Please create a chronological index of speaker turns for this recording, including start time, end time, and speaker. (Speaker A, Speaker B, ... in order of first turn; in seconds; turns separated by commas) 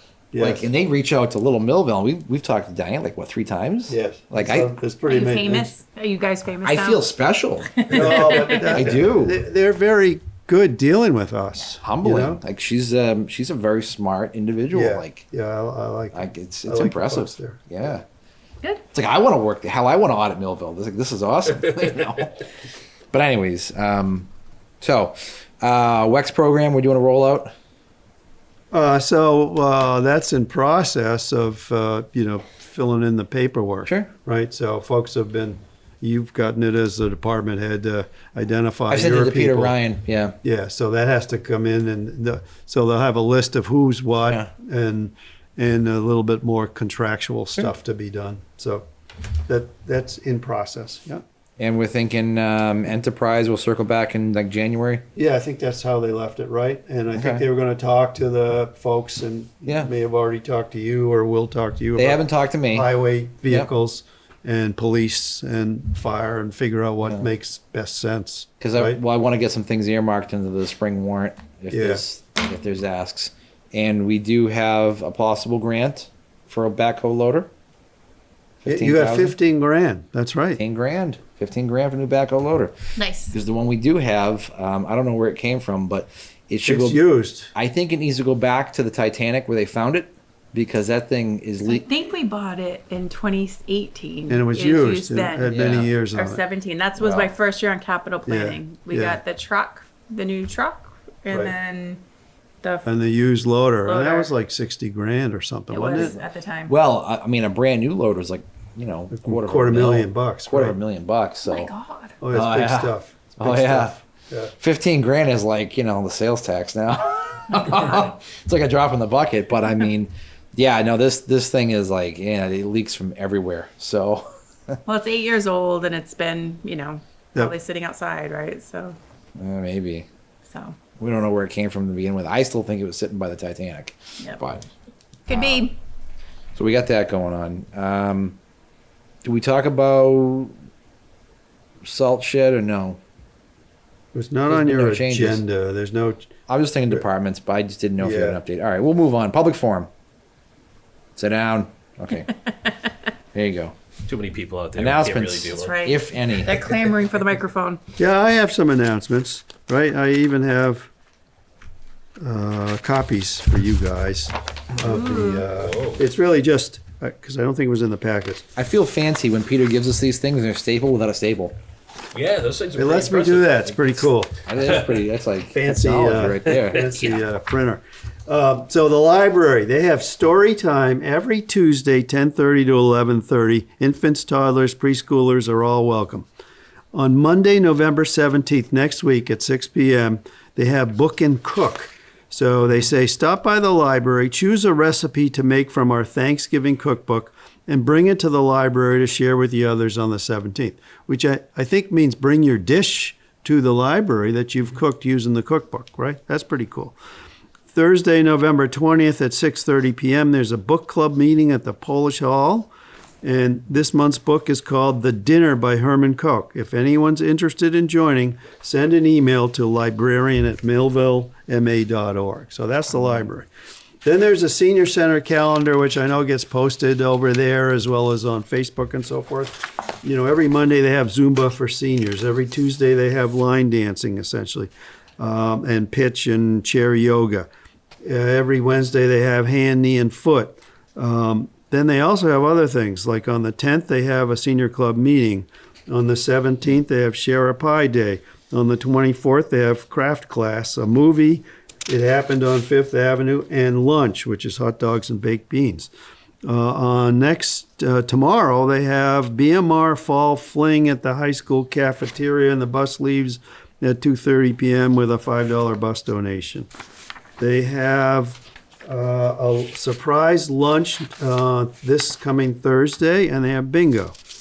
Speaker A: 0.3-0.7, Speaker B: 0.4-4.7, Speaker A: 3.9-5.7, Speaker C: 5.1-7.1, Speaker B: 6.6-9.4, Speaker C: 7.7-8.9, Speaker A: 7.9-12.4, Speaker B: 11.8-15.2, Speaker A: 14.7-17.7, Speaker B: 16.1-18.0, Speaker B: 18.9-22.4, Speaker B: 23.1-24.3, Speaker B: 24.8-27.5, Speaker A: 28.7-39.8, Speaker B: 33.9-34.1, Speaker B: 38.9-40.4, Speaker A: 40.4-48.9, Speaker A: 49.5-51.2, Speaker B: 51.6-55.0, Speaker A: 55.2-69.0, Speaker B: 57.1-57.5, Speaker B: 59.7-59.9, Speaker B: 62.0-62.9, Speaker B: 68.6-77.5, Speaker A: 71.7-72.0, Speaker B: 78.6-79.4, Speaker A: 78.7-80.6, Speaker B: 80.6-82.7, Speaker C: 83.0-83.3, Speaker B: 83.3-87.0, Speaker A: 86.7-87.5, Speaker B: 87.5-91.8, Speaker C: 91.6-102.0, Speaker A: 94.3-96.4, Speaker B: 95.5-95.9, Speaker B: 97.0-97.3, Speaker A: 98.3-99.2, Speaker C: 102.6-102.9, Speaker A: 102.9-106.2, Speaker C: 103.8-104.3, Speaker C: 105.7-106.7, Speaker B: 106.7-111.7, Speaker A: 109.1-110.8, Speaker C: 111.5-112.2, Speaker A: 112.2-114.5, Speaker B: 112.3-114.0, Speaker B: 114.6-124.8, Speaker C: 117.6-118.0, Speaker C: 124.9-129.0, Speaker B: 129.4-130.1, Speaker C: 130.5-130.8, Speaker B: 131.0-134.7, Speaker C: 135.3-135.7, Speaker B: 135.3-135.7, Speaker B: 136.6-138.4, Speaker B: 139.2-140.5, Speaker B: 141.8-143.0, Speaker A: 144.1-146.3, Speaker B: 144.5-145.4, Speaker B: 146.5-149.9, Speaker A: 148.0-148.4, Speaker B: 151.2-152.3, Speaker B: 153.3-153.8, Speaker D: 154.1-155.9, Speaker B: 154.8-156.6, Speaker C: 155.5-157.8, Speaker A: 158.0-160.9, Speaker A: 162.2-168.4, Speaker C: 164.8-165.5, Speaker D: 165.6-166.0, Speaker B: 168.6-171.6, Speaker D: 172.1-174.1, Speaker A: 172.8-174.4, Speaker B: 174.4-176.8, Speaker D: 174.6-175.0, Speaker A: 175.5-186.3, Speaker D: 176.5-177.2, Speaker A: 186.9-207.0, Speaker A: 207.7-212.7, Speaker A: 213.2-223.5, Speaker A: 224.0-237.5, Speaker A: 238.0-255.9, Speaker A: 256.4-266.7, Speaker A: 267.4-274.2